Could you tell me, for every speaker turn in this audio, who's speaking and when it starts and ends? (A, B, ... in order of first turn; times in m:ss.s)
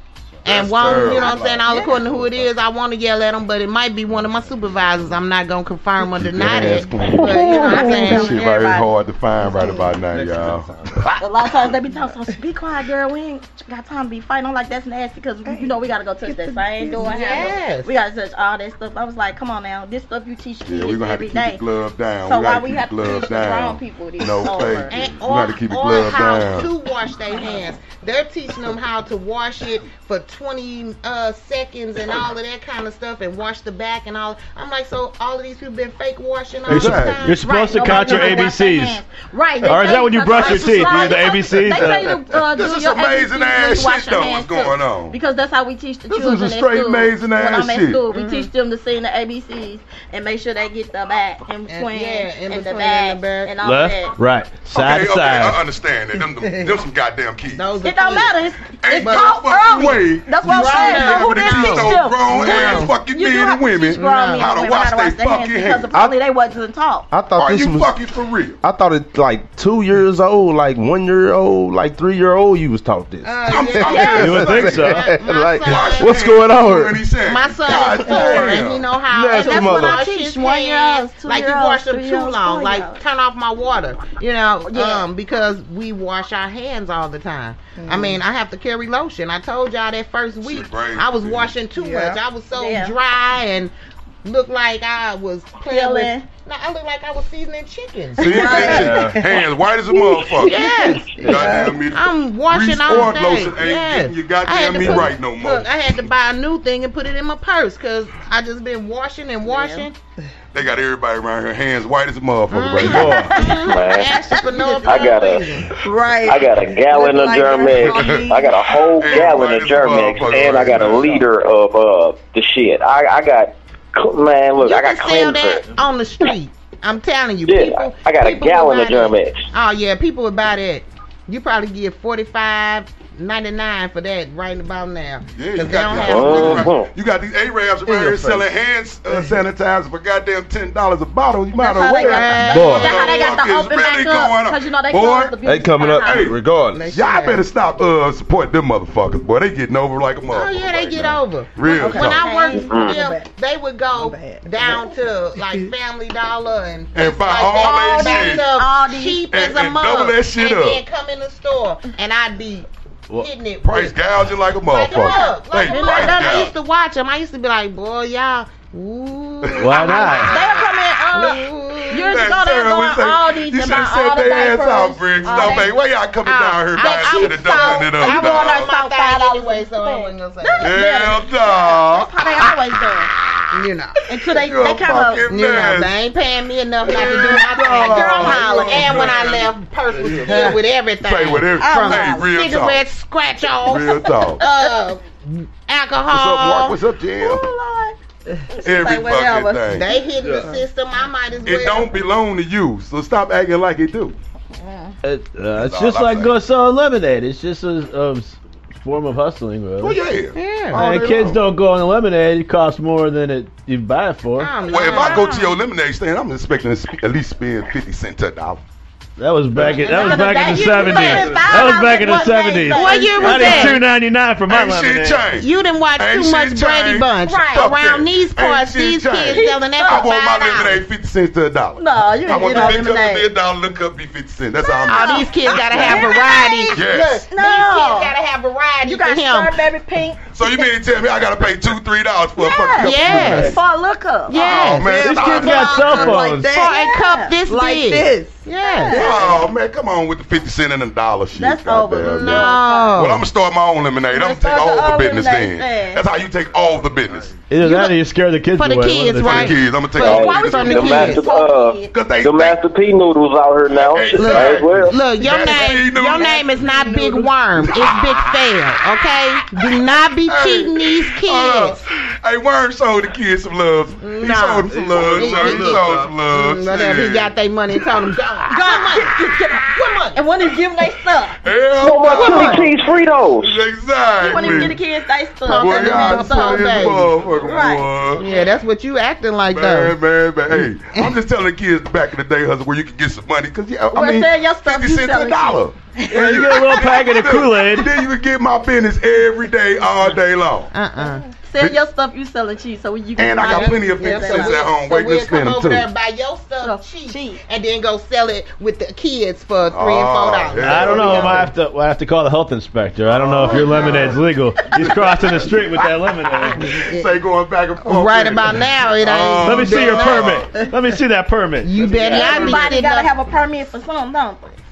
0:00.4-0:01.5 A
0:00.4-0:08.4 B
0:00.5-0:02.4 C
0:01.7-0:02.0 D
0:06.2-0:10.7 A
0:06.4-0:07.2 C
0:07.4-0:08.9 D
0:09.4-0:10.0 E
0:10.1-0:11.1 C
0:11.2-0:21.6 D
0:15.4-0:17.5 E
0:17.0-0:17.9 B
0:20.6-0:26.7 A
0:22.2-0:24.9 D
0:24.9-0:38.5 B
0:27.4-0:27.6 D
0:36.7-0:37.3 A
0:36.7-0:39.0 F
0:37.4-0:54.2 D
0:39.6-0:42.2 F
0:40.4-0:41.2 A
0:40.8-0:41.1 B
0:42.4-0:45.2 A
0:46.1-0:48.0 A
0:48.1-0:48.5 B
0:51.7-0:53.5 B
0:53.6-0:55.6 F
0:54.7-0:57.7 A
0:57.5-0:58.4 B
0:57.8-1:07.1 D
0:58.8-1:06.1 A
0:59.0-1:02.9 B
1:03.9-1:04.5 B
1:07.1-1:07.9 C
1:07.4-1:08.6 A
1:08.6-1:17.0 C
1:13.2-1:16.2 B
1:13.5-1:15.0 A
1:13.9-1:14.2 D
1:14.2-1:15.1 F
1:15.6-1:18.8 A
1:17.2-1:33.7 B
1:18.1-1:18.4 D
1:18.4-1:20.0 C
1:19.3-1:23.0 D
1:24.6-1:25.1 D
1:27.8-1:28.2 E
1:30.4-1:31.5 A
1:31.8-1:32.2 E
1:32.5-1:33.0 D
1:34.2-1:38.8 B
1:35.6-1:36.3 D
1:38.2-1:45.7 A
1:38.3-1:38.9 D
1:38.4-1:39.0 E
1:38.6-1:39.2 C
1:40.4-1:49.9 B
1:41.2-1:41.8 E
1:41.2-1:41.6 C
1:49.4-1:49.9 D
1:50.5-1:53.4 A
1:52.5-1:55.7 B
1:52.8-1:53.3 C
1:53.3-1:55.3 D
1:53.6-1:55.4 G
1:55.8-1:58.7 E
1:56.2-2:05.6 G
1:57.9-1:58.2 A
1:58.9-2:01.2 A
2:04.6-2:16.7 B
2:07.4-2:09.5 G
2:15.3-2:25.4 A
2:16.0-2:16.9 G
2:17.9-2:18.4 C
2:21.5-2:26.3 D
2:21.9-2:23.2 B
2:22.5-2:22.9 C
2:25.4-2:26.8 C
2:26.0-2:32.4 A
2:26.7-2:27.4 B
2:30.3-2:44.0 B
2:31.7-2:32.8 D
2:32.5-2:33.0 G
2:32.7-2:33.3 E
2:33.9-2:35.7 E
2:36.9-2:38.5 A
2:37.5-2:39.3 D
2:39.3-2:40.8 A
2:43.6-2:46.5 A
2:44.7-2:52.2 B
2:44.9-2:46.5 D
2:49.4-2:50.0 A
2:49.6-2:50.4 F
2:49.9-2:55.8 D
2:52.0-2:58.7 A
2:55.2-2:55.7 B
2:56.2-3:00.8 B
2:56.8-3:03.1 D
3:00.6-3:02.6 A
3:03.5-3:04.0 B
3:04.1-3:05.3 D
3:04.3-3:05.9 A
3:05.3-3:16.8 B
3:06.8-3:09.5 A
3:07.7-3:09.2 D
3:10.0-3:10.6 C
3:10.2-3:12.8 A
3:11.5-3:12.3 D
3:13.6-3:14.4 A
3:14.0-3:14.8 D
3:16.1-3:17.5 A
3:17.2-3:18.0 D
3:18.5-3:19.8 D
3:18.6-3:19.9 A
3:19.7-3:22.0 B
3:20.2-3:20.5 C
3:21.4-3:24.2 A
3:24.5-3:25.0 D
3:25.0-3:30.0 F
3:25.6-3:26.3 A
3:29.8-3:31.4 A
3:30.3-3:30.9 B
3:30.7-3:34.5 F
3:34.4-3:35.3 B
3:34.6-3:38.6 A
3:34.7-3:35.5 D
3:39.2-3:45.2 F
3:39.8-3:41.6 B
3:39.8-3:43.8 D
3:42.1-3:43.8 B
3:44.5-3:57.2 A
3:45.4-3:50.8 B
3:47.2-3:47.8 D
3:49.3-3:50.2 D
3:51.8-3:53.3 D
3:54.6-3:58.1 D
3:54.9-3:59.6 B
3:58.8-4:00.7 D
4:00.3-4:03.6 A
4:02.4-4:04.8 D
4:02.8-4:03.6 B
4:04.3-4:09.3 B
4:04.4-4:06.2 A
4:04.9-4:05.3 E
4:05.0-4:06.6 F
4:05.3-4:07.4 D
4:06.2-4:06.8 E
4:07.4-4:09.4 E
4:08.6-4:09.2 D
4:08.9-4:17.3 A
4:11.3-4:13.0 D
4:12.0-4:13.2 B
4:14.1-4:16.0 D
4:17.5-4:19.5 F
4:17.6-4:17.9 B
4:18.6-4:21.2 B
4:19.2-4:21.1 A
4:20.0-4:25.0 G
4:20.3-4:21.9 D
4:21.9-4:22.6 A
4:23.7-4:26.4 A
4:24.2-4:31.8 B
4:26.2-4:27.4 E
4:27.6-4:28.5 A
4:29.6-4:37.3 A
4:34.0-4:40.2 B
4:34.7-4:36.2 C
4:38.5-4:41.4 D
4:41.4-4:42.7 A
4:41.8-4:43.6 G
4:42.1-4:42.6 D
4:42.1-4:42.6 B
4:43.4-4:44.8 A
4:44.2-4:48.5 D
4:44.3-4:44.7 B
4:45.4-4:47.2 B
4:45.4-4:48.2 A
4:48.2-4:49.9 B
4:49.5-5:00.7 A
4:50.5-4:51.2 B
4:53.9-4:55.7 D
4:56.1-4:57.9 F
5:00.7-5:01.2 B
5:01.4-5:04.7 D
5:03.2-5:05.9 A
5:03.4-5:11.5 B
5:06.6-5:07.4 D
5:09.7-5:11.5 A
5:10.6-5:16.7 F
5:13.1-5:20.5 A
5:13.5-5:14.2 B
5:16.7-5:17.1 B
5:17.8-5:20.4 B
5:19.4-5:21.9 F
5:21.6-5:23.1 B
5:22.0-5:22.6 A
5:22.0-5:24.6 D